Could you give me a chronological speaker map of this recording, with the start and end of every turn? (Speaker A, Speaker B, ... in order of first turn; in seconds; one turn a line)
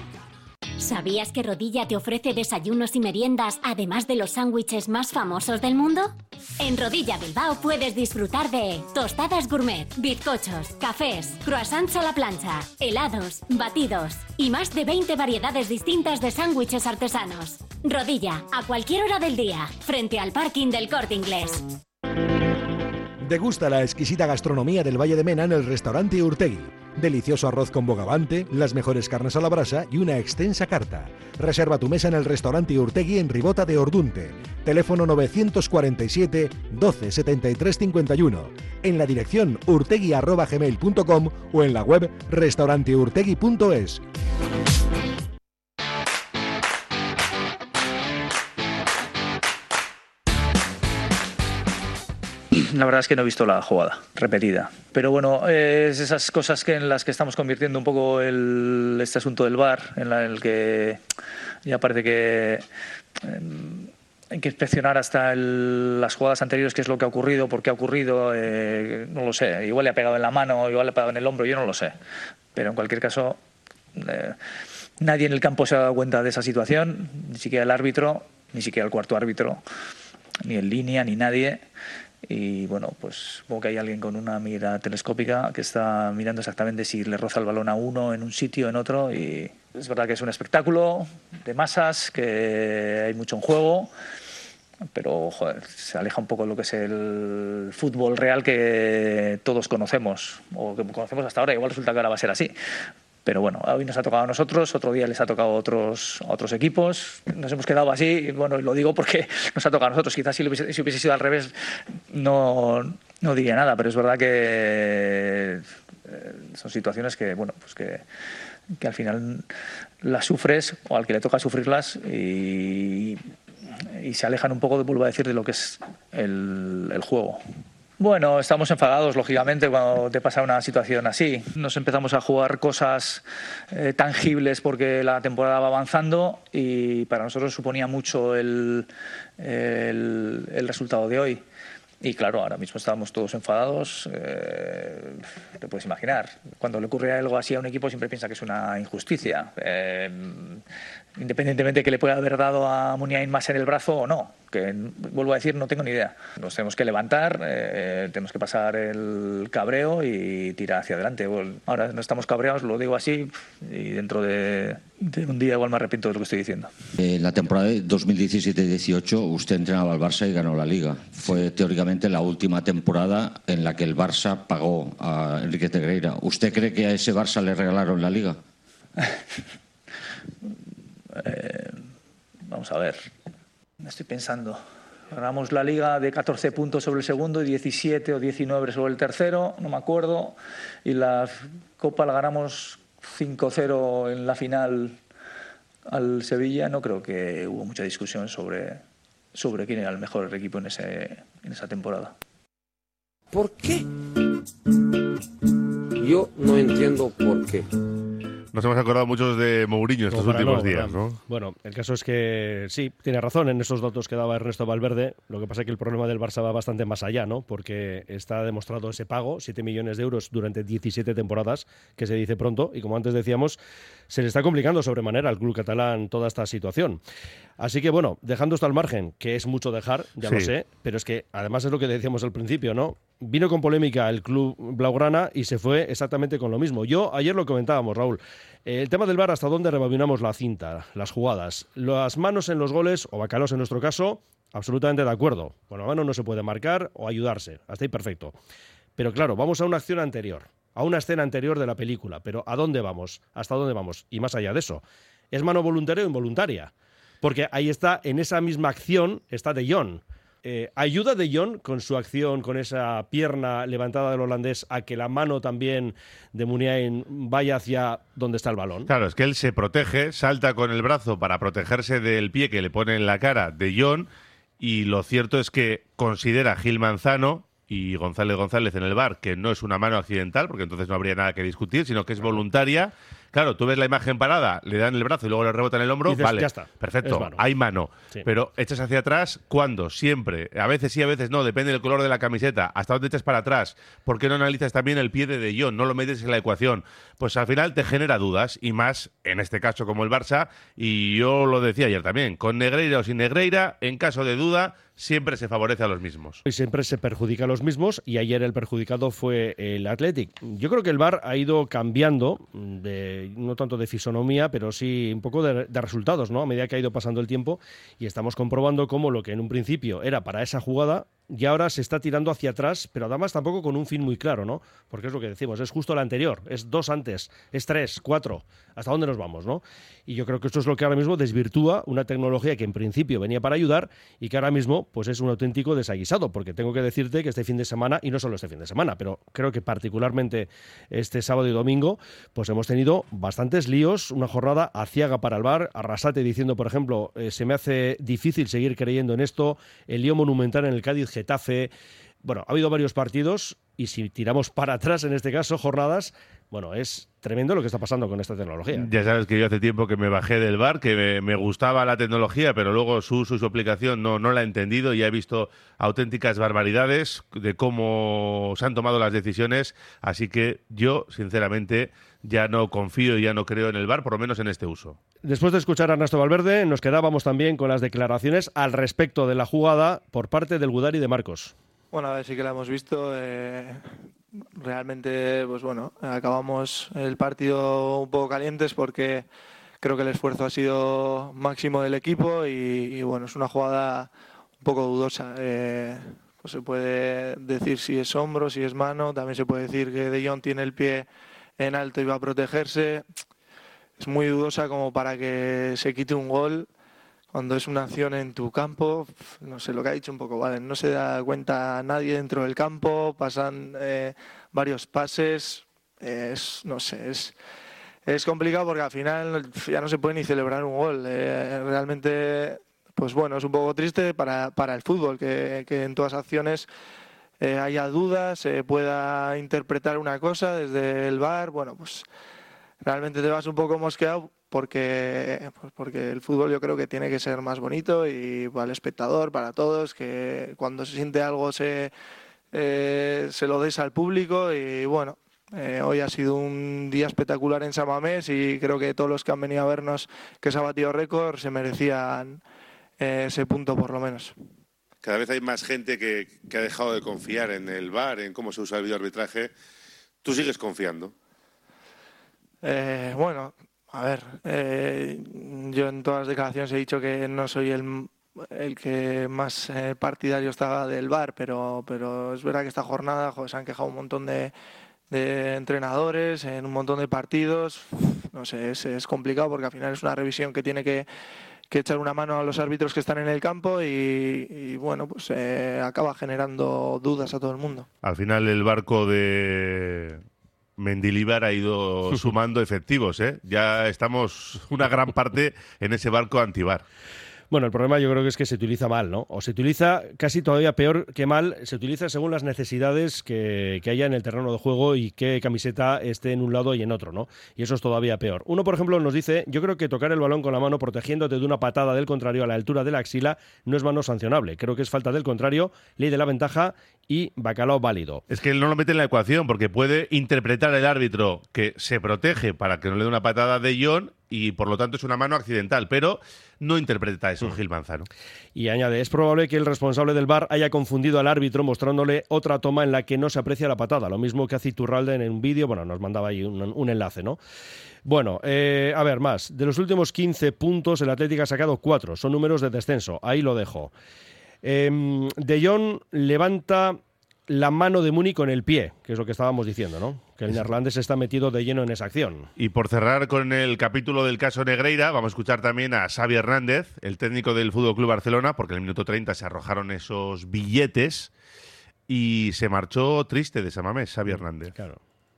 Speaker A: 0.8-21.6
Speaker B: 23.2-44.0
Speaker C: 52.5-61.0
Speaker C: 61.6-62.6
Speaker C: 63.2-72.0
Speaker C: 72.5-73.4
Speaker C: 73.9-74.4
Speaker C: 75.0-79.6
Speaker C: 80.4-81.6
Speaker C: 82.2-93.9
Speaker C: 94.9-102.5
Speaker C: 103.2-111.5
Speaker C: 112.1-118.0
Speaker C: 118.8-119.5
Speaker C: 120.0-123.2
Speaker C: 123.9-127.4
Speaker C: 128.0-141.4
Speaker C: 142.0-150.6
Speaker C: 151.2-166.7
Speaker D: 167.0-178.4
Speaker C: 181.1-181.8
Speaker C: 182.5-183.1
Speaker C: 183.8-195.0
Speaker C: 195.9-198.8
Speaker C: 199.3-202.1
Speaker E: 203.3-203.9
Speaker E: 206.0-207.7
Speaker F: 208.5-211.2
Speaker G: 210.1-223.6
Speaker G: 224.1-227.0
Speaker G: 227.6-248.3
Speaker G: 249.0-256.7
Speaker G: 257.2-268.9
Speaker F: 268.9-306.4
Speaker G: 286.1-287.4
Speaker G: 306.4-351.7
Speaker G: 352.2-358.9
Speaker F: 358.7-375.0
Speaker G: 375.2-381.5
Speaker H: 381.9-383.8
Speaker H: 384.6-389.2
Speaker H: 389.8-394.1
Speaker H: 394.6-401.1
Speaker H: 401.6-403.1
Speaker H: 404.0-406.7
Speaker H: 407.3-417.4
Speaker H: 418.1-426.7
Speaker H: 427.4-432.0
Speaker H: 432.8-441.9
Speaker H: 442.5-452.4
Speaker H: 453.0-454.3
Speaker F: 455.0-459.5
Speaker F: 460.2-461.1
Speaker H: 462.6-474.5
Speaker H: 475.1-481.1
Speaker H: 481.7-487.9
Speaker F: 488.0-490.2
Speaker F: 490.8-496.8
Speaker G: 497.5-518.2
Speaker F: 518.3-528.1
Speaker G: 528.5-537.4
Speaker G: 538.0-543.9
Speaker G: 544.6-552.5
Speaker F: 552.6-561.3
Speaker F: 562.1-564.7
Speaker G: 564.3-565.0